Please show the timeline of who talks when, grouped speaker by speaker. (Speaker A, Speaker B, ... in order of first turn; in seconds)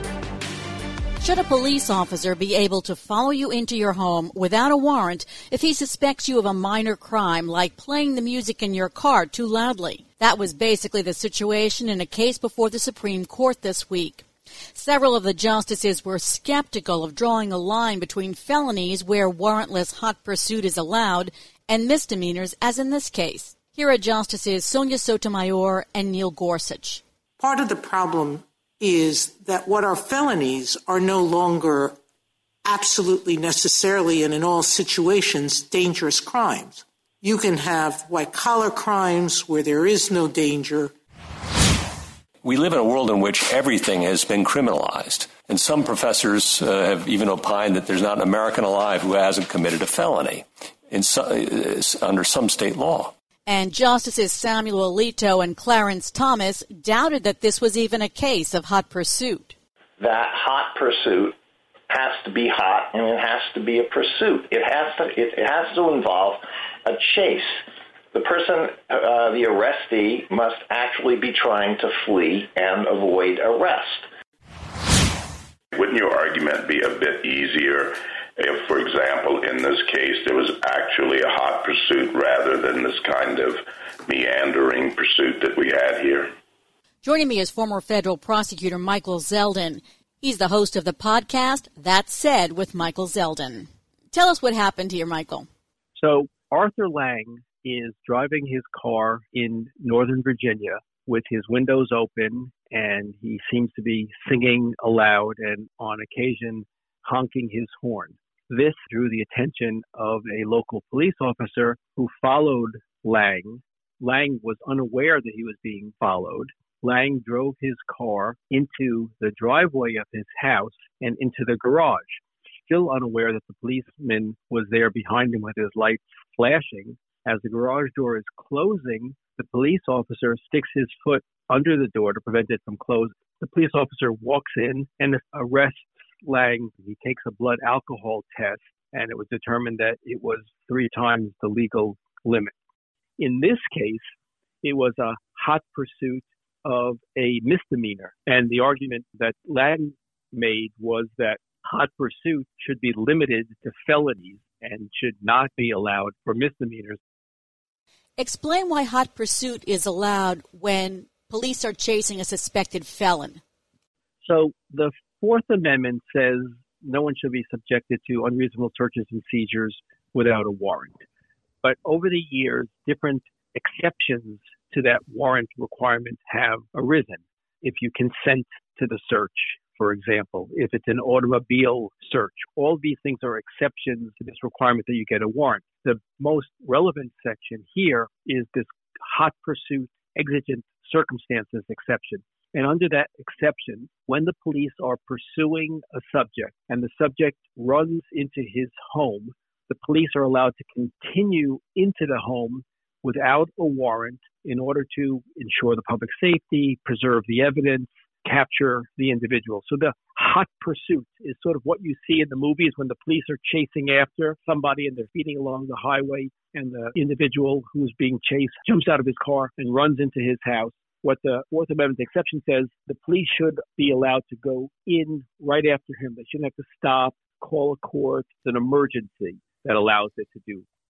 Speaker A: 1.2-27.0, 53.5-59.5, 87.0-95.5, 158.2-163.4
Speaker B: 27.4-32.0, 32.6-40.9
Speaker C: 42.4-53.1
Speaker D: 60.0-61.4, 61.9-74.1
Speaker E: 75.7-86.3
Speaker F: 95.9-142.5, 143.2-144.1, 144.6-157.0, 164.2-171.0, 171.6-230.7